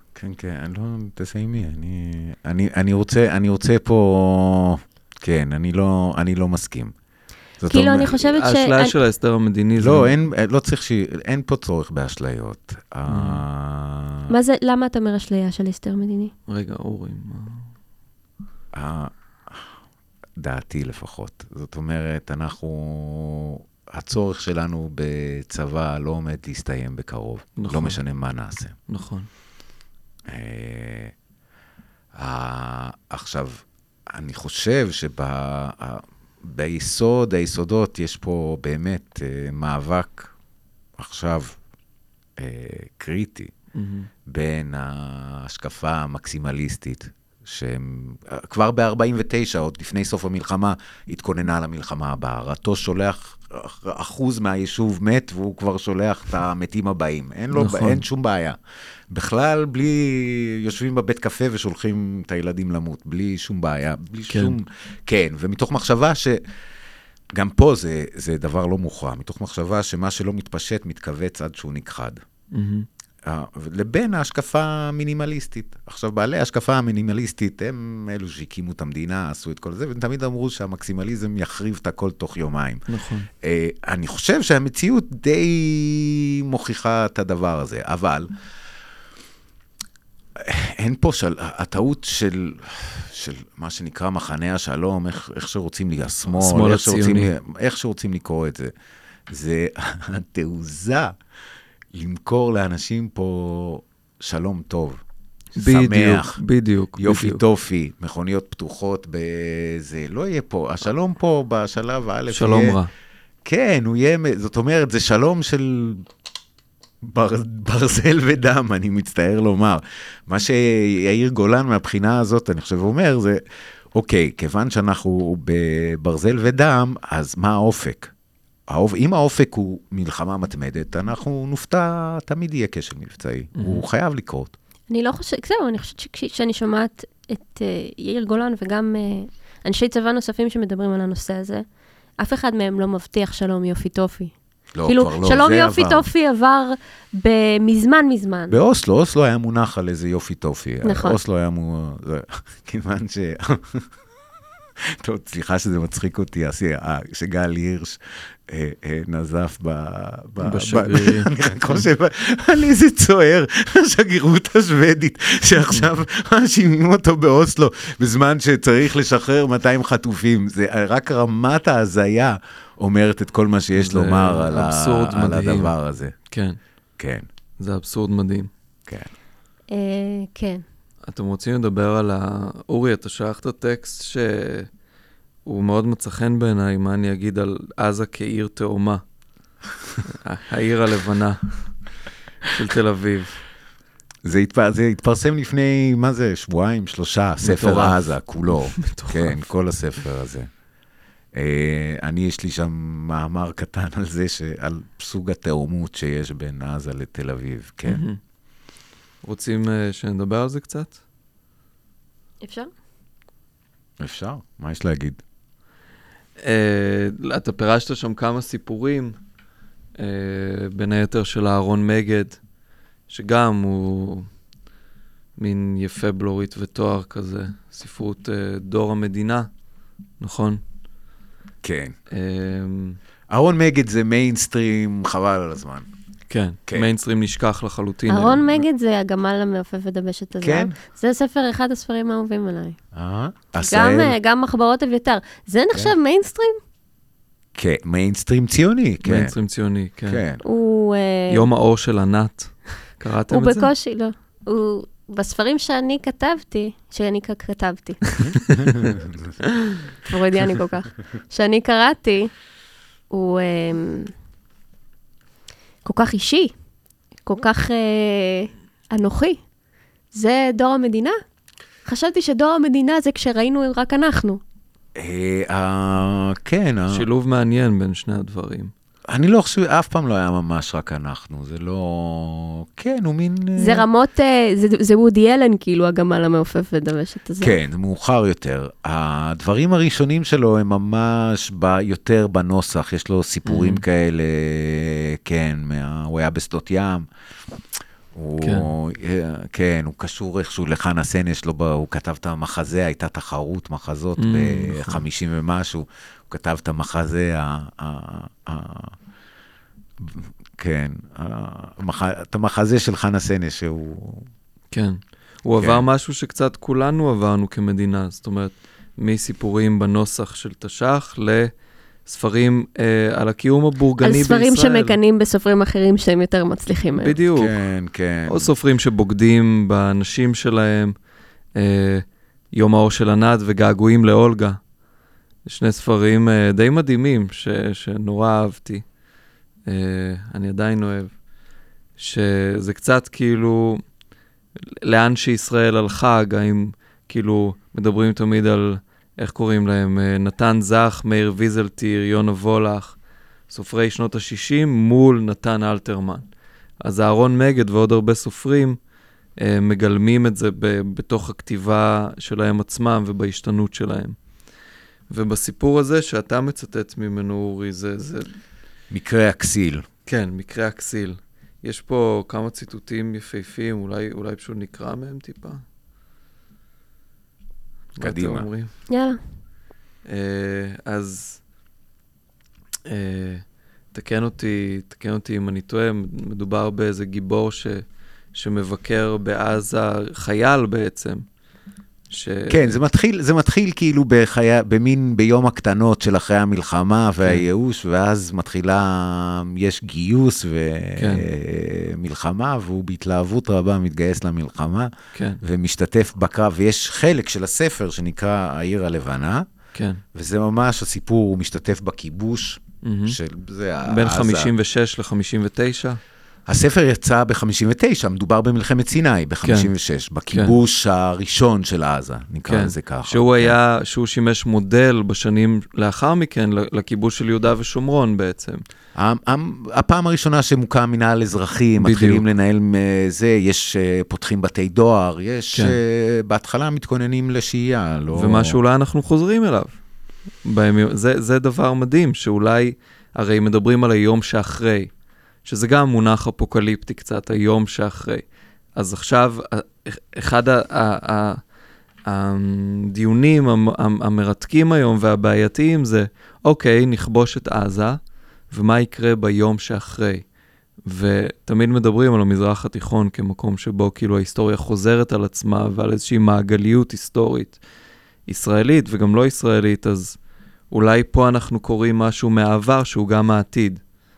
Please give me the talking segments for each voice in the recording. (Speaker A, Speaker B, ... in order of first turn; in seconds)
Speaker A: 0.1-6.9, 7.6-8.4, 9.8-14.3, 18.7-19.7, 20.4-28.7, 30.3-31.1, 32.2-40.3, 41.0-41.6, 42.4-43.5, 44.3-58.5, 59.1-66.4, 67.3-72.2, 73.2-82.8, 83.4-88.3, 90.4-98.7, 99.3-101.1, 101.9-105.0, 105.5-106.4, 107.0-112.8, 113.4-116.1, 117.0-123.4, 123.9-128.1, 128.7-134.5, 144.8-146.1, 148.5-153.8, 155.0-176.2, 177.0-177.2, 194.2-200.5, 201.3-208.1, 214.0-215.2, 231.6-231.9, 233.3-235.9, 240.4-240.7, 242.9-244.2, 247.6-249.3, 250.1-250.4, 258.2-259.3, 275.0-277.0, 279.1-283.8, 287.4-297.1, 298.1-308.9, 310.0-314.3, 315.6-315.8, 327.3-328.5, 368.9-369.9, 378.0-378.5, 392.5-409.4, 410.1-414.5, 416.5-423.6, 428.9-438.6
Speaker B: 7.7-8.9, 14.3-16.3, 134.9-141.6, 142.2-148.6, 150.8-151.2, 179.7-180.6, 212.4-212.7, 238.1-242.8, 243.7-246.6, 250.4-251.4, 253.3-258.2, 260.0-262.3, 263.1-264.1, 265.8-266.5, 267.2-269.4, 270.1-271.2, 271.8-274.4, 283.6-287.6, 324.0-327.1, 378.9-379.2
Speaker C: 8.3-10.1, 13.1-13.4, 16.5-17.7, 27.6-28.0, 28.9-29.3, 43.7-44.1, 57.5-58.0, 64.3-64.5, 72.5-72.9, 82.9-83.3, 96.3-97.3, 105.5-107.4, 112.3-112.9, 133.6-133.8, 160.4-161.9, 173.8-175.7, 176.3-176.6, 177.6-178.5, 181.0-184.7, 185.4-189.0, 190.0-191.7, 192.5-193.4, 197.4-199.4, 207.9-208.2, 209.2-210.9, 216.4-219.2, 220.0-222.4, 223.1-224.3, 225.4-229.5, 230.2-230.6, 232.1-233.0, 236.3-238.5, 249.0-250.2, 251.3-253.7, 276.9-278.7, 293.4-293.8, 298.4-298.7, 304.2-305.0, 314.7-321.5, 322.0-325.0, 326.9-327.5, 328.3-330.9, 331.5-334.6, 335.4-338.9, 339.6-341.2, 342.0-343.8, 344.6-358.8, 359.4-364.2, 365.1-368.4, 370.1-375.6, 377.9-378.7, 380.0-381.4, 382.9-391.3, 392.1-392.8, 401.0-401.3, 405.1-405.4, 409.7-410.0, 412.8-413.2, 413.9-416.0, 419.4-419.7, 422.5-428.6, 431.8-432.2, 438.1-439.8, 440.4-451.5, 452.0-460.2, 460.9-467.6, 468.2-470.2, 470.7-473.8